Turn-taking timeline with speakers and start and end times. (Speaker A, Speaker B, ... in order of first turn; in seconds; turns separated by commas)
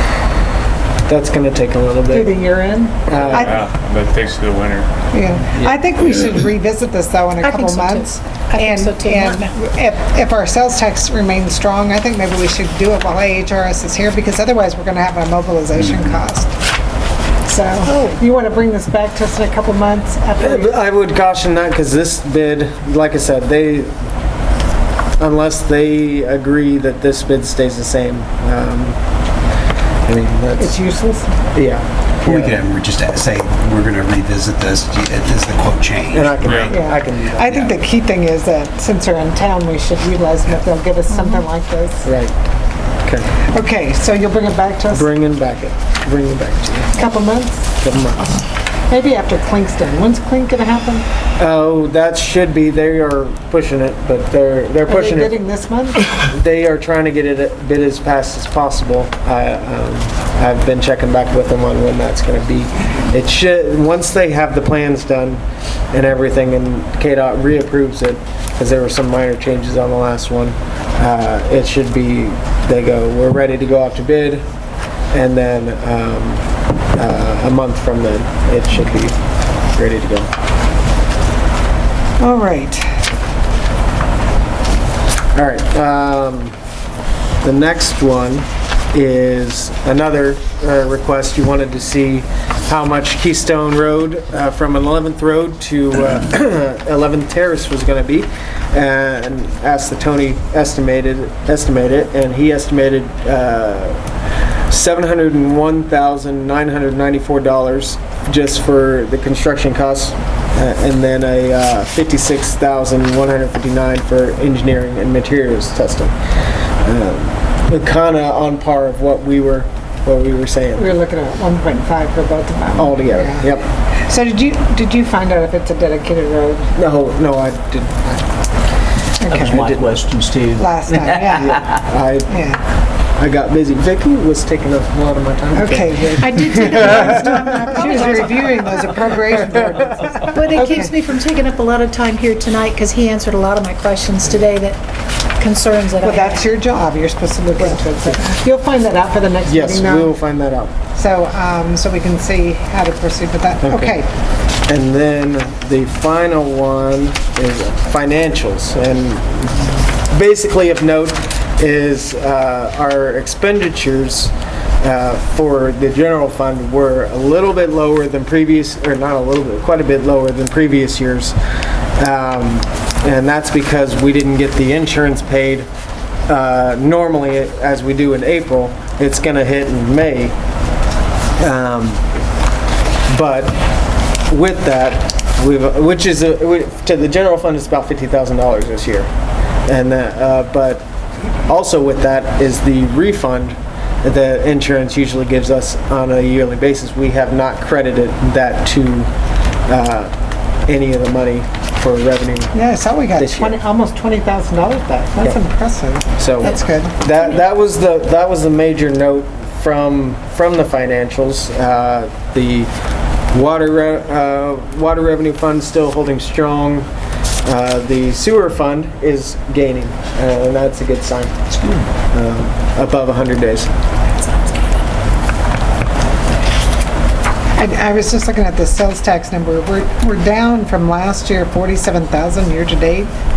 Speaker A: 1.1-2.3, Speaker B: 2.1-3.6, Speaker A: 3.1-3.6, Speaker C: 3.1-4.9, Speaker B: 5.1-16.5, Speaker C: 6.0-6.4, Speaker D: 7.4-9.5, Speaker E: 15.8-16.1, Speaker B: 17.4-20.7, Speaker D: 17.8-18.2, Speaker A: 20.4-23.9, Speaker A: 25.2-28.9, Speaker A: 30.1-30.8, Speaker B: 30.6-31.4, Speaker A: 31.5-32.5, Speaker E: 32.2-36.4, Speaker A: 36.1-37.6, Speaker C: 36.4-36.8, Speaker B: 36.7-42.1, Speaker D: 41.1-41.4, Speaker A: 42.0-42.3, Speaker B: 43.4-45.1, Speaker A: 44.9-46.9, Speaker B: 46.9-47.7, Speaker A: 47.8-48.3, Speaker B: 48.9-51.0, Speaker A: 51.4-55.4, Speaker B: 54.9-56.1, Speaker A: 56.2-65.4, Speaker A: 65.9-74.4, Speaker A: 75.1-76.4, Speaker A: 77.0-79.2, Speaker A: 79.7-80.3, Speaker B: 82.2-82.9, Speaker A: 85.3-86.5, Speaker A: 87.4-104.0, Speaker A: 104.7-116.1, Speaker A: 116.8-120.9, Speaker B: 120.8-123.5, Speaker A: 122.7-123.7, Speaker B: 124.0-126.7, Speaker A: 126.8-128.2, Speaker B: 129.2-129.6, Speaker F: 129.3-131.8, Speaker B: 130.6-131.7, Speaker A: 131.3-132.3, Speaker B: 132.3-132.6, Speaker A: 133.2-137.0, Speaker B: 135.5-140.9, Speaker D: 136.2-138.7, Speaker D: 140.3-144.8, Speaker D: 145.4-146.4, Speaker B: 146.0-150.2, Speaker A: 149.4-150.7, Speaker B: 150.9-154.1, Speaker A: 153.6-153.9, Speaker A: 154.7-171.3, Speaker A: 172.0-175.7, Speaker A: 176.3-180.3, Speaker A: 181.4-182.0, Speaker A: 183.1-183.6, Speaker A: 184.3-189.1, Speaker A: 189.7-190.8, Speaker A: 191.5-199.1, Speaker A: 199.7-200.1, Speaker A: 200.7-202.5, Speaker B: 202.5-206.9, Speaker A: 203.2-203.6, Speaker A: 206.2-212.7, Speaker A: 213.3-216.9, Speaker A: 217.4-221.3, Speaker F: 221.6-221.8, Speaker A: 222.1-223.7, Speaker B: 227.6-233.1